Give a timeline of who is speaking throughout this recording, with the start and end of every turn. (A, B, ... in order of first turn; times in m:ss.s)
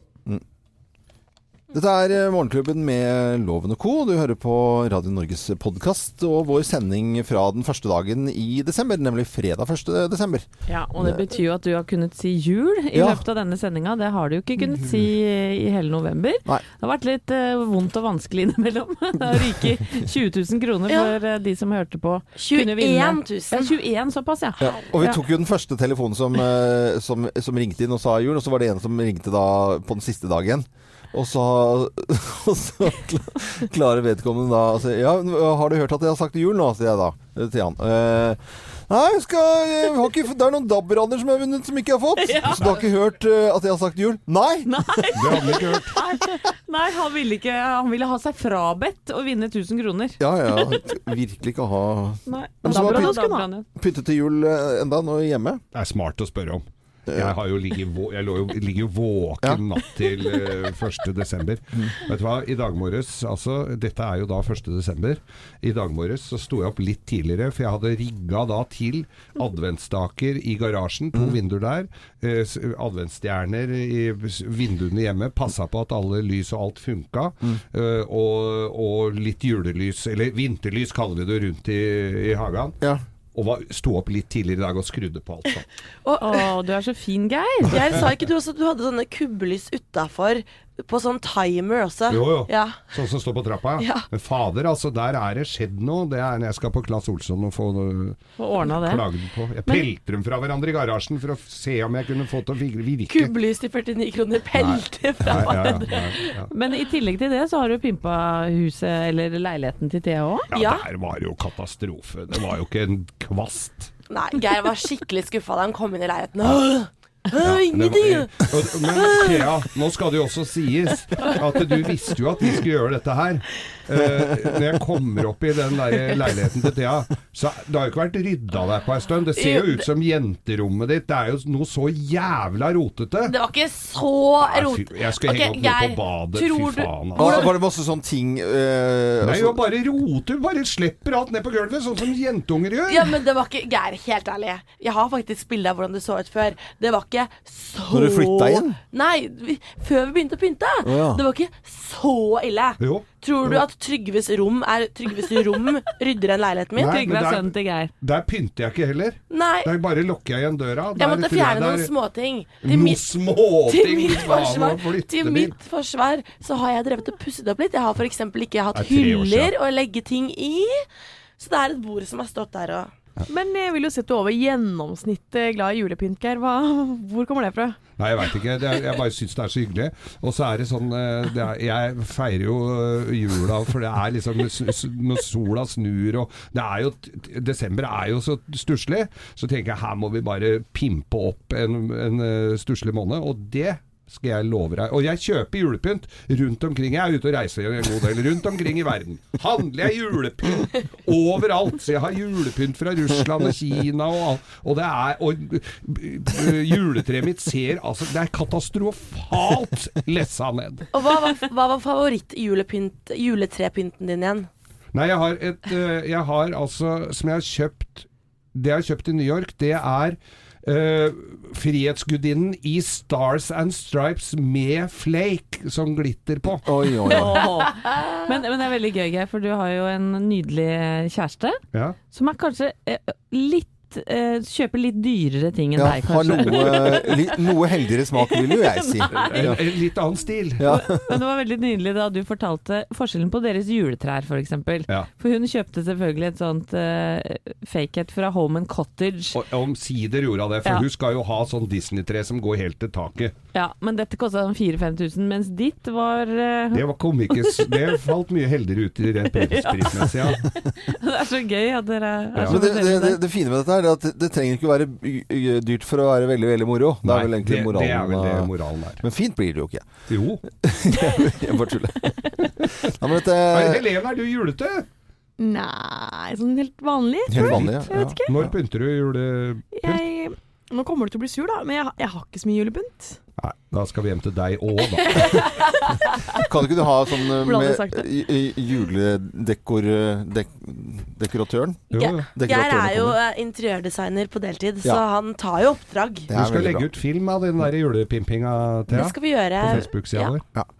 0:01.7-0:11.2 A
0:10.7-0:25.2 B
0:12.9-0:13.2 A
0:20.9-0:21.1 C
0:22.4-0:23.7 C
0:24.6-0:45.6 A
0:42.2-0:42.8 B
0:44.7-0:50.7 B
0:45.1-0:46.0 D
0:50.2-0:53.2 A
0:52.3-0:53.7 B
0:52.6-0:53.4 E
0:53.8-0:55.6 A
0:55.7-1:22.8 D
0:57.1-0:57.3 A
1:23.3-1:25.6 D
1:26.0-1:26.5 C
1:26.2-1:27.9 B
1:27.7-1:32.8 C
1:32.1-1:43.3 D
1:33.8-1:34.0 C
1:38.4-1:39.0 B
1:43.1-1:46.3 C
1:44.6-1:46.5 D
1:46.5-1:50.5 B
1:50.5-1:50.8 C
1:50.5-1:53.9 D
1:54.1-1:59.5 C
1:57.4-2:13.3 D
2:09.4-2:09.8 C
2:13.2-2:17.5 C
2:14.4-2:17.5 D
2:17.2-2:19.6 A
2:19.2-2:23.2 D
2:22.9-2:37.0 C
2:27.9-2:28.8 A
2:30.8-2:31.2 A
2:32.8-2:33.1 D
2:36.8-2:37.9 B
2:36.8-2:41.9 D
2:39.3-2:39.7 C
2:41.0-2:50.8 C
2:42.6-2:45.5 D
2:48.7-2:49.5 D
2:51.4-2:52.9 C
2:53.3-2:57.8 E
2:58.0-3:30.9 D
3:30.9-3:34.5 C
3:34.9-3:46.7 D
3:46.6-3:47.4 A
3:47.1-3:51.6 B
3:52.1-3:57.2 B
3:55.8-3:59.6 A
3:58.4-3:59.3 B
3:59.2-4:00.7 D
4:00.6-4:01.1 A
4:00.7-4:09.4 B
4:09.3-4:13.3 D
4:13.5-4:16.8 B
4:16.7-4:20.6 D
4:19.5-4:20.0 B
4:20.8-4:23.2 B
4:22.4-4:22.6 D
4:22.5-4:29.9 A
4:27.0-4:29.0 D
4:30.1-4:30.4 D
4:30.6-4:33.9 A
4:33.5-4:34.9 D
4:35.4-4:38.4 E
4:37.3-4:38.5 A
4:37.3-4:40.0 D
4:39.8-4:43.2 E
4:43.4-4:45.5 D
4:46.4-4:53.2 A
4:47.4-4:48.1 E
4:51.9-4:52.3 D
4:52.0-4:56.3 C
4:56.3-4:56.9 A
4:56.3-5:00.4 D
4:58.9-5:00.4 C